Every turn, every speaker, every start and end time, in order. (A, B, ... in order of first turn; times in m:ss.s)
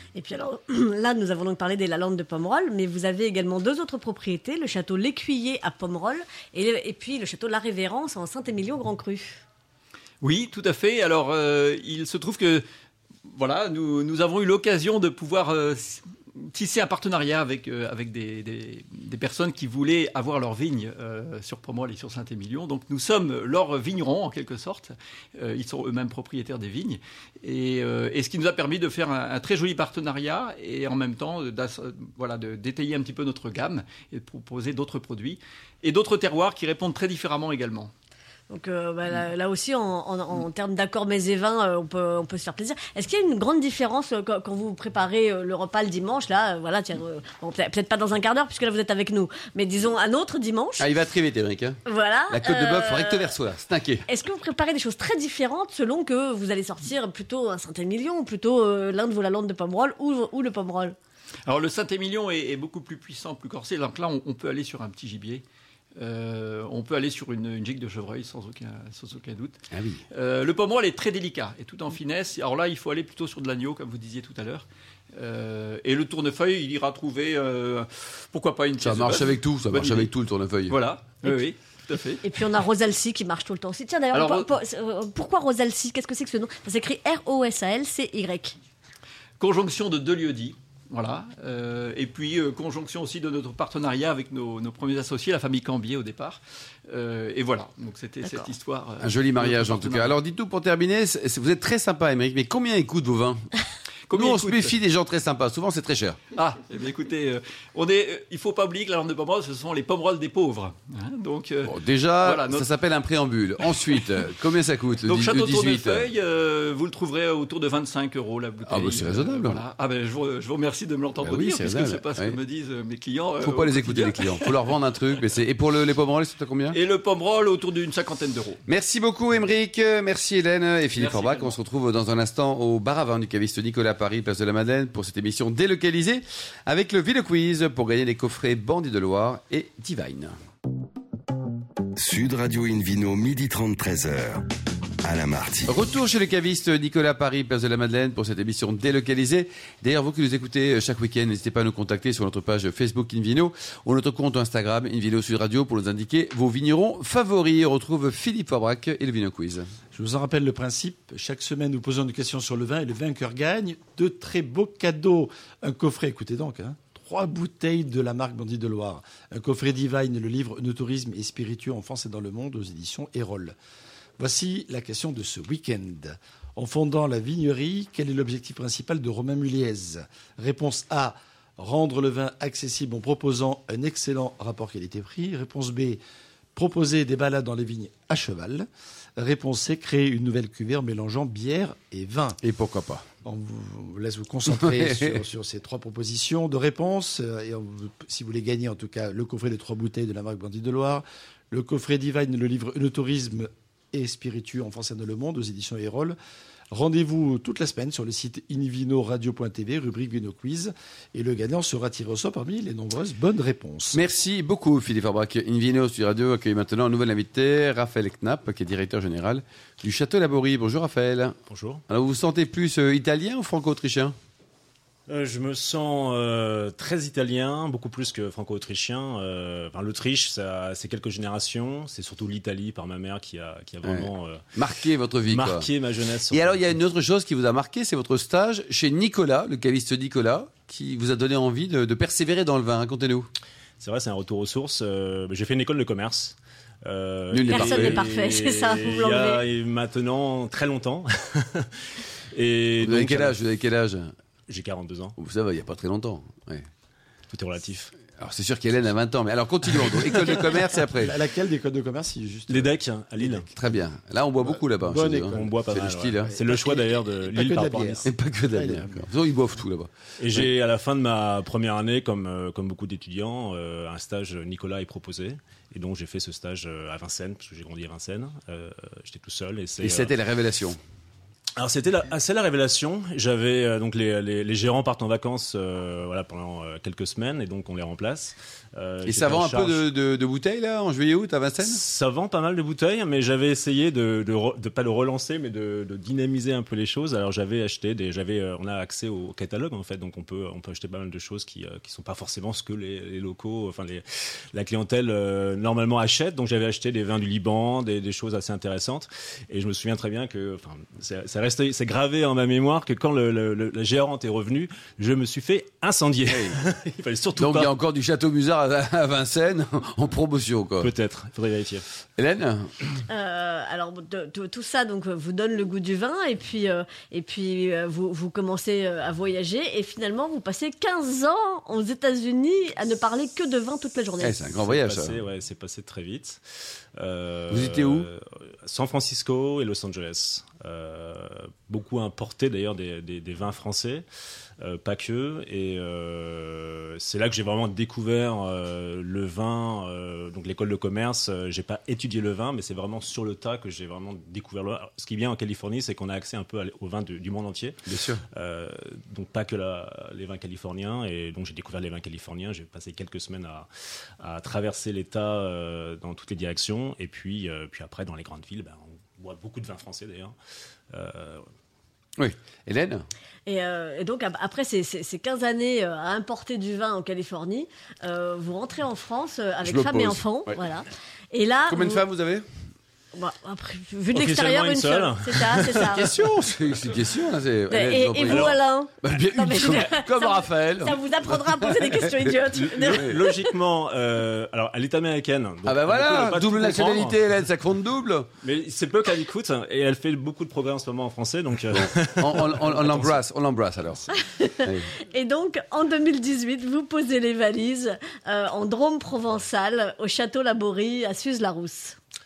0:00.1-0:09.4 A
0:10.2-0:12.6 B
0:13.2-0:37.9 B
0:38.5-0:50.9 A
0:50.8-0:54.0 C
0:51.8-0:53.3 A
0:54.1-1:01.0 A
1:01.4-1:05.4 B
1:06.0-1:09.6 B
1:09.7-1:10.0 C
1:10.1-1:20.1 B
1:18.8-1:20.8 C
1:20.7-1:22.2 B
1:22.2-1:28.6 A
1:24.1-1:24.5 B
1:29.4-1:40.2 B
1:39.0-1:43.4 C
1:44.1-1:44.7 B
1:44.1-1:46.2 C
1:46.3-1:52.7 B
1:51.6-1:56.1 C
1:55.0-2:04.7 B
1:58.6-1:59.6 C
2:01.2-2:02.4 C
2:03.4-2:06.8 C
2:06.7-2:08.6 B
2:08.6-2:20.4 C
2:10.9-2:11.5 B
2:22.0-2:24.4 D
2:25.0-2:25.7 D
2:25.7-2:39.7 C
2:39.9-2:53.6 E
2:54.2-3:06.0 E
3:06.5-3:12.4 E
3:12.4-3:13.0 C
3:13.2-3:26.2 E
3:14.6-3:15.2 C
3:26.7-3:34.0 E
3:33.9-3:41.4 C
3:41.5-3:41.8 F
3:41.9-3:44.2 C
3:45.1-3:54.4 F
3:53.8-3:55.7 C
3:55.2-3:56.8 F
3:56.3-4:03.3 C
4:03.8-4:13.4 F
4:07.3-4:08.0 C
4:07.5-4:09.4 A
4:12.8-4:14.1 C
4:14.5-4:15.1 F
4:15.2-4:16.7 C
4:17.3-4:17.9 F
4:18.1-4:21.1 C
4:20.9-4:23.5 E
4:22.5-4:23.5 F
4:23.5-4:26.3 C
4:24.4-4:25.5 E
4:25.2-4:28.1 F
4:26.2-4:29.1 E
4:28.0-4:30.5 C
4:30.2-4:40.1 F
4:39.8-4:40.8 C
4:41.6-4:49.8 F
4:49.0-4:51.8 C
4:51.6-5:17.7 F
5:16.3-5:16.6 C
5:17.4-5:20.9 C
5:20.8-5:21.8 F
5:22.2-5:22.7 C
5:23.1-5:34.5 A
5:34.2-5:35.2 C
5:34.6-5:36.4 F
5:37.0-5:44.0 F
5:37.5-5:38.1 C
5:44.6-5:57.8 F
5:57.9-5:58.2 C
5:58.3-6:03.7 F
6:04.2-6:10.3 F
6:10.9-6:11.4 F
6:12.2-6:13.0 C
6:13.4-6:22.0 A
6:19.6-6:20.6 C
6:21.7-6:22.4 C
6:23.1-6:26.1 A
6:24.1-6:26.0 F
6:25.8-6:32.3 C
6:27.7-6:33.4 A
6:28.2-6:28.6 F
6:32.5-6:37.4 F
6:32.9-6:33.1 C
6:35.6-6:38.3 C
6:38.4-6:43.2 F
6:41.7-6:44.9 C
6:44.2-6:52.0 A